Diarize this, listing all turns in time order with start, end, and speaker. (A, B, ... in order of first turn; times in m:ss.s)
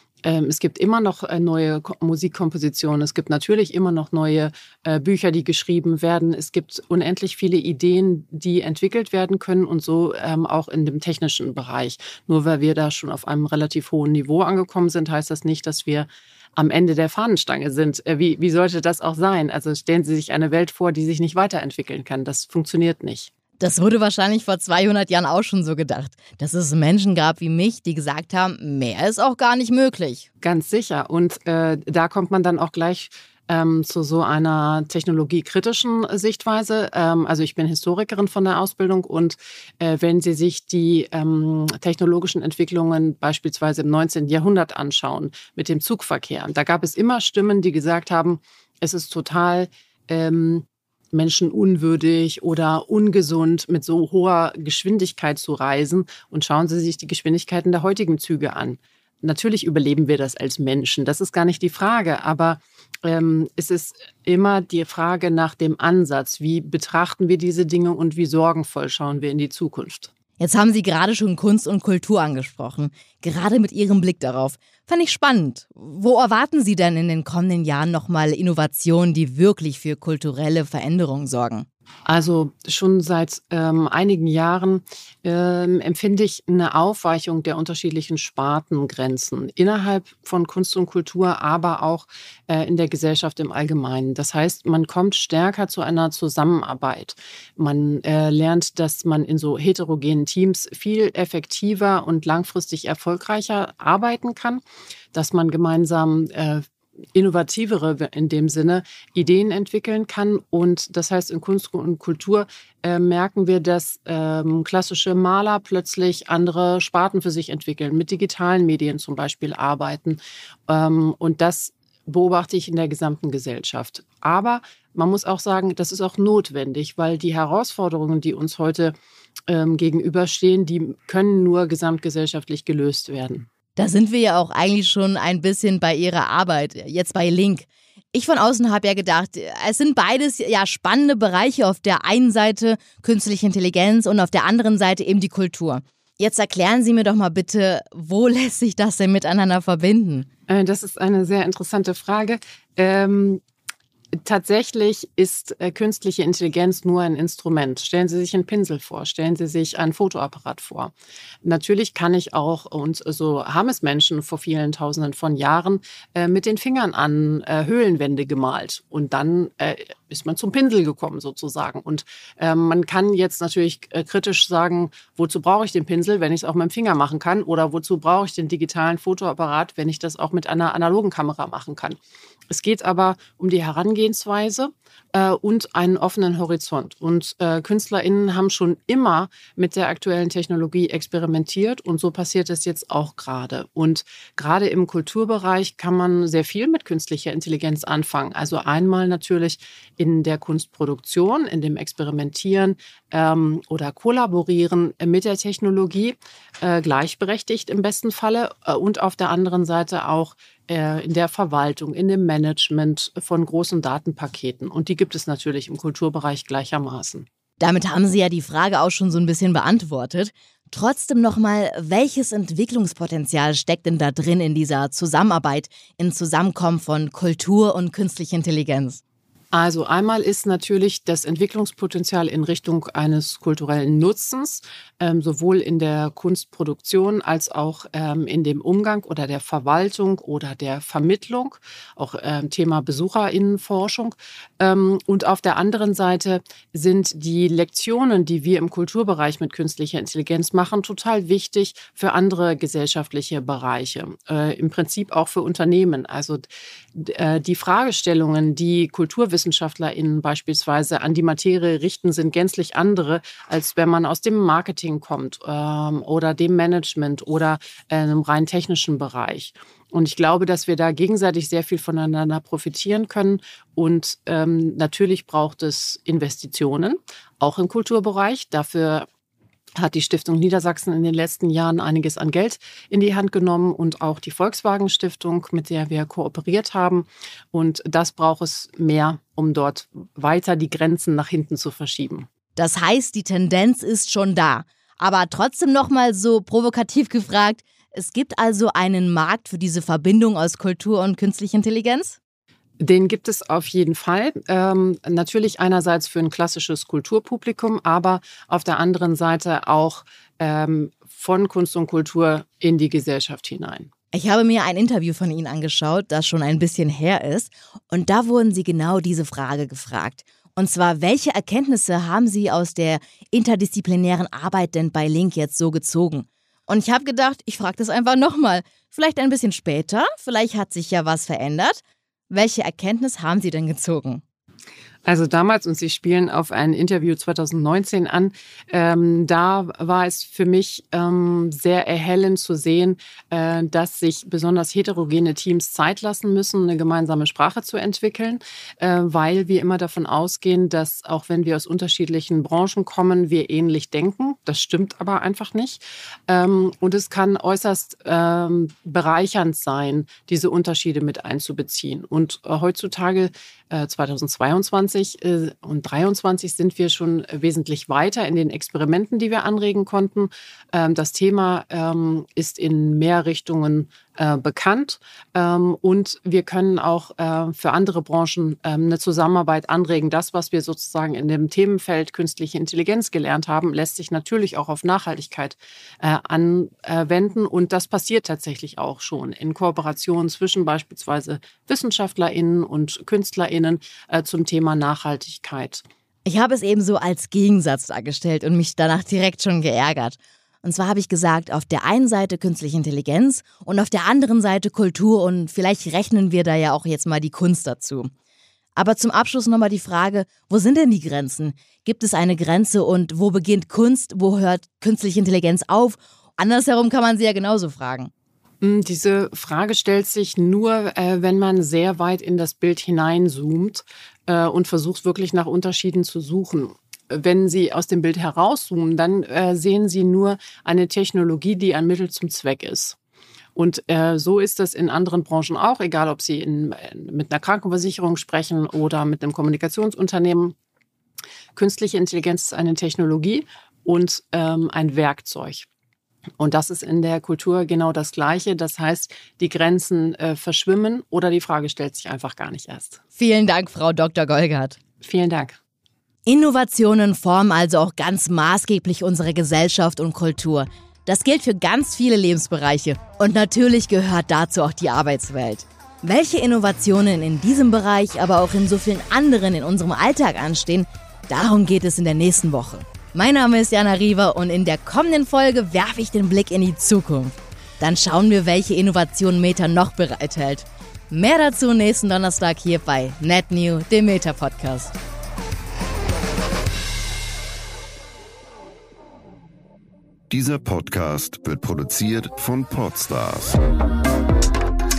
0:00.2-0:23.3 A
0:23.6-0:30.3 B
0:30.4-1:10.1 A
1:10.4-1:21.7 B
1:22.0-1:46.6 A
1:47.1-2:08.9 A
2:09.5-2:13.5 A
2:13.8-2:30.3 B
2:30.5-2:33.4 A
2:34.2-2:40.9 A
2:41.4-3:02.0 A
3:02.5-3:37.3 A
3:37.6-3:49.0 B
3:49.5-4:39.1 A
4:39.8-4:52.3 A
4:52.5-5:02.2 B
5:02.8-5:13.9 A
5:14.1-5:34.2 B
5:35.0-6:35.8 A
6:36.2-6:48.1 B
6:48.8-6:58.1 B
6:58.6-7:13.0 A
7:13.5-7:20.5 A
7:21.5-7:25.7 A
7:26.4-7:33.0 A
7:33.2-7:34.8 B
7:35.0-7:35.6 A
7:36.2-8:05.0 B
8:10.3-8:13.6 C